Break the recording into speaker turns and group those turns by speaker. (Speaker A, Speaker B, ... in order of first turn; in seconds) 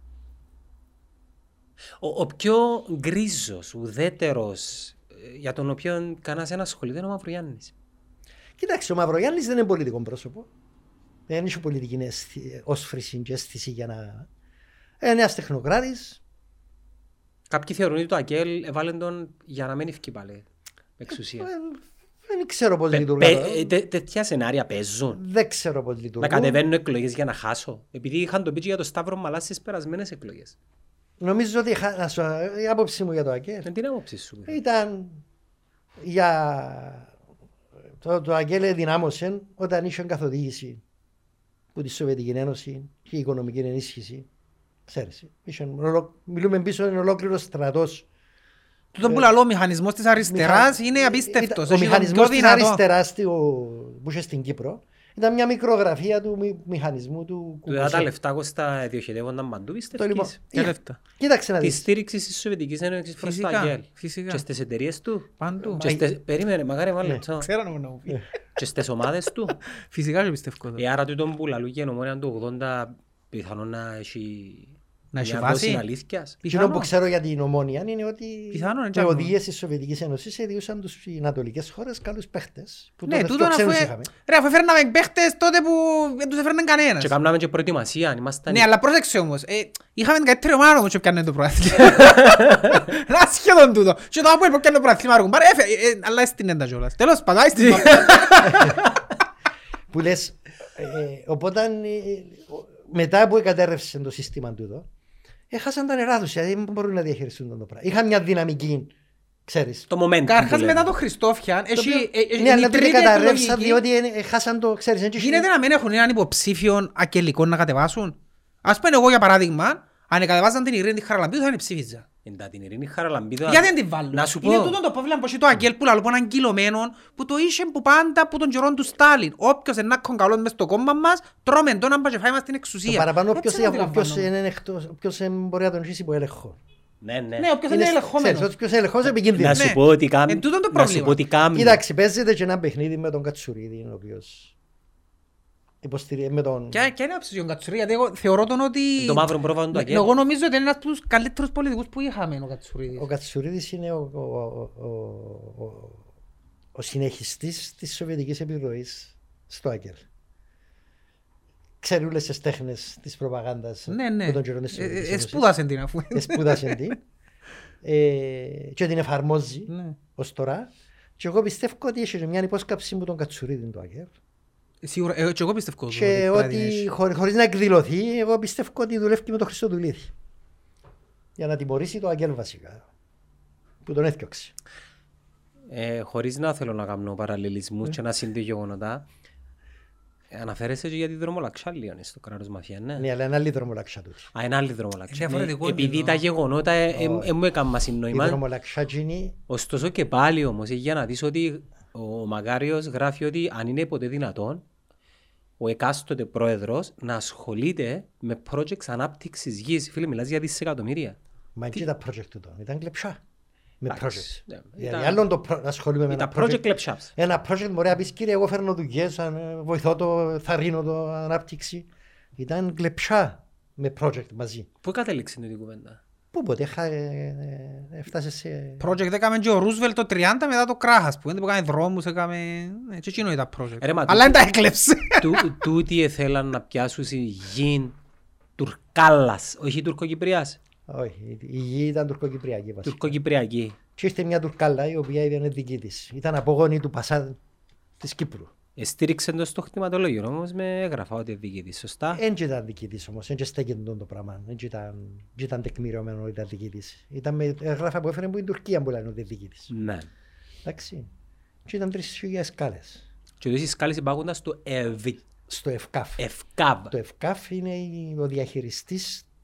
Speaker A: 2.0-7.7, 17.5-20.4, 21.0-21.5, 22.9-25.2, 26.2-30.6, 33.6-34.6, 57.7-60.4, 61.6-67.5, 68.6-69.5, 70.8-76.4, 87.0-88.7, 92.4-92.7, 97.6-98.9, 109.9-110.9, 122.2-124.8, 137.0-137.5, 139.3-141.8, 149.0-150.1, 185.7-189.0, 190.3-193.1, 194.3-198.4, 199.5-204.6, 205.6-211.2, 213.9-215.2, 216.1-217.1, 224.8-226.0, 233.8-234.4, 235.2-237.9, 238.6-240.6, 242.8-243.8, 248.8-252.2, 259.7-260.1, 263.4-265.2, 266.2-266.9
Speaker B: 8.6-10.5, 11.3-14.3, 15.0-16.2, 21.4-23.7, 25.1-26.6, 31.2-33.7, 34.5-35.2, 36.0-37.1, 38.0-40.8, 41.7-44.3, 44.9-48.0, 48.9-49.3, 50.3-58.1, 59.9-61.9, 65.8-66.1, 76.5-84.1, 98.5-98.8, 99.9-104.9, 105.5-108.9, 109.5-109.9, 111.8-115.5, 132.8-136.6, 137.7-139.7, 141.5-144.5, 145.8-146.9, 152.9-156.0, 156.7-160.0, 161.8-165.5, 166.1-167.0, 167.8-174.1, 175.9-180.1, 181.4-182.8, 183.8-184.5, 193.0-194.3, 196.9-197.3, 198.1-199.3, 211.6-213.2, 213.8-224.7, 226.3-228.8, 240.9-243.1, 244.0-247.4, 248.0-248.5, 252.1-259.7, 260.6-261.1, 261.6-263.0, 265.5-266.2, 266.9-269.2
Speaker C: 49.0-52.8, 60.5-61.0, 63.2-64.4, 65.4-65.9, 67.4-68.2, 69.7-70.8, 75.1-75.8, 76.4-76.9, 78.5-79.3, 83.1-87.1, 88.5-98.6, 110.2-113.8, 115.2-122.0, 123.5-134.3, 137.4-138.5, 139.5-141.2, 146.7-153.1, 163.9-166.8, 169.7-170.0, 174.8-176.9, 195.1-196.2, 228.8-235.6